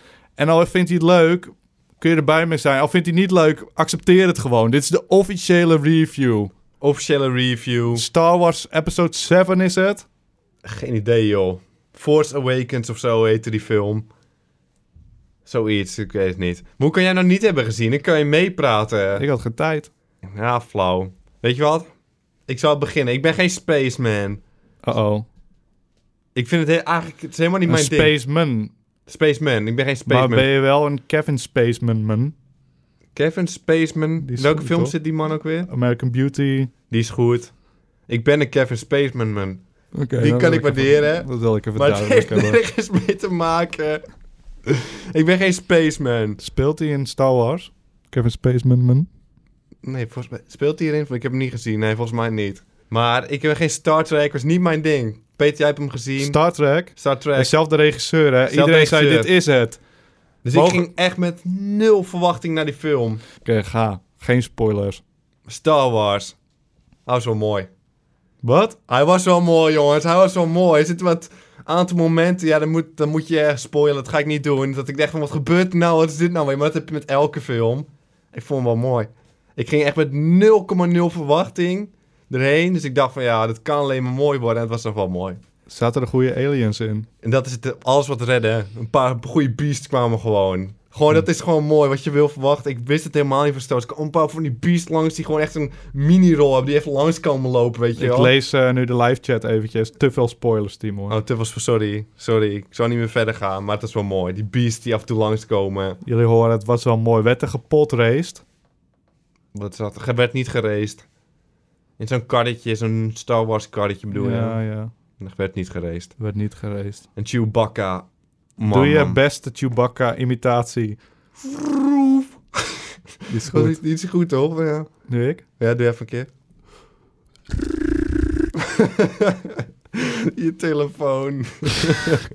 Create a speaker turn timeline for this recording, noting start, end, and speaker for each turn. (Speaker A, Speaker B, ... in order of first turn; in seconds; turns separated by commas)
Speaker A: 0.4-6.5, Speaker B: 6.8-8.1, Speaker A: 7.9-10.1, Speaker B: 10.6-14.1, Speaker B: 15.5-19.2, Speaker A: 19.2-19.9, Speaker B: 20.2-21.9, Speaker B: 22.5-24.4, Speaker A: 24.8-25.3, Speaker B: 26.4-28.1, Speaker A: 27.7-28.7, Speaker B: 29.1-30.5, Speaker A: 30.1-32.3, Speaker B: 33.1-35.7, Speaker A: 34.2-35.0, Speaker A: 35.6-36.7, Speaker B: 36.9-37.5, Speaker B: 38.1-39.6, Speaker A: 39.9-42.6, Speaker B: 40.2-44.0, Speaker B: 44.7-46.4, Speaker A: 46.4-49.1, Speaker B: 49.8-56.4, Speaker A: 56.2-59.8, Speaker B: 57.0-57.5, Speaker B: 58.5-59.3, Speaker B: 60.4-63.2, Speaker A: 60.5-60.9, Speaker A: 63.5-65.0, Speaker B: 65.5-66.3, Speaker B: 67.1-67.7, Speaker A: 68.4-68.8, Speaker B: 68.9-85.4, Speaker A: 85.7-87.1, Speaker B: 87.2-98.3, Speaker A: 98.0-101.2, Speaker B: 101.1-106.0, Speaker A: 106.0-108.4, Speaker B: 109.5-111.0, Speaker B: 112.0-114.6, Speaker A: 114.1-114.9, Speaker B: 115.2-116.1, Speaker A: 116.2-117.0, Speaker B: 117.2-119.2, Speaker A: 118.7-121.0, Speaker A: 123.3-123.8, Speaker B: 123.5-124.9, Speaker A: 125.1-125.4, Speaker B: 125.6-126.3, Speaker B: 130.0-132.2